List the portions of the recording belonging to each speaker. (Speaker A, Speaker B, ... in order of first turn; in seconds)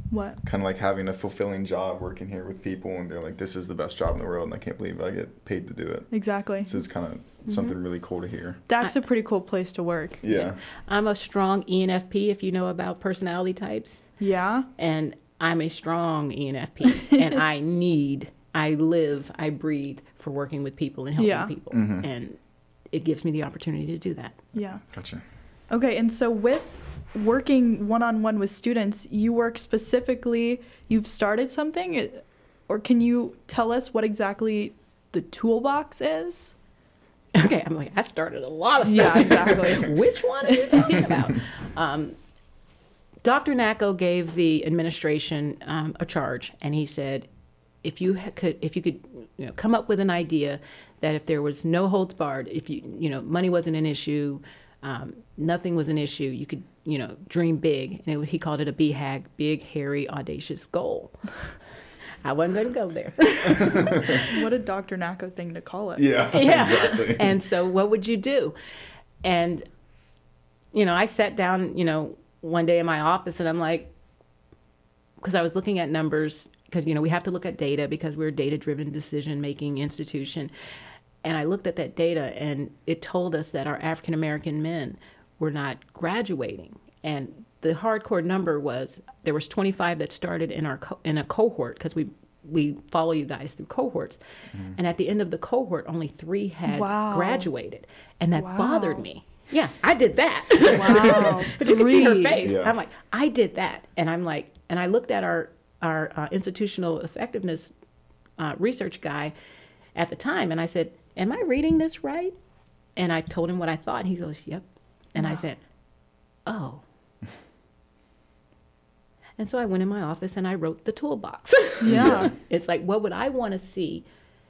Speaker A: 0.1-0.4, 6.1-6.8, 8.7-10.3, 14.2-14.7, 21.2-21.5, 24.6-24.8, 25.7-36.5, 38.8-41.1, 64.2-66.1, 96.7-97.5, 98.4-99.0, 100.6-102.4, 121.8-122.3
Speaker B: 0.4-6.1, 6.6-8.6, 10.2-10.6, 21.7-22.1, 24.9-25.2, 63.7-64.1, 66.0-67.4, 102.4-102.7, 121.9-122.3
Speaker C: 10.9-14.0, 14.8-22.4, 22.9-24.4, 37.3-42.2, 43.2-47.3, 47.8-61.2, 62.2-64.3, 66.3-68.6, 69.2-69.7, 70.7-73.9, 75.2-80.5, 81.2-94.2, 94.7-107.7, 108.4-109.3, 110.0-112.3, 113.0-115.6, 116.5-116.8, 119.4-124.1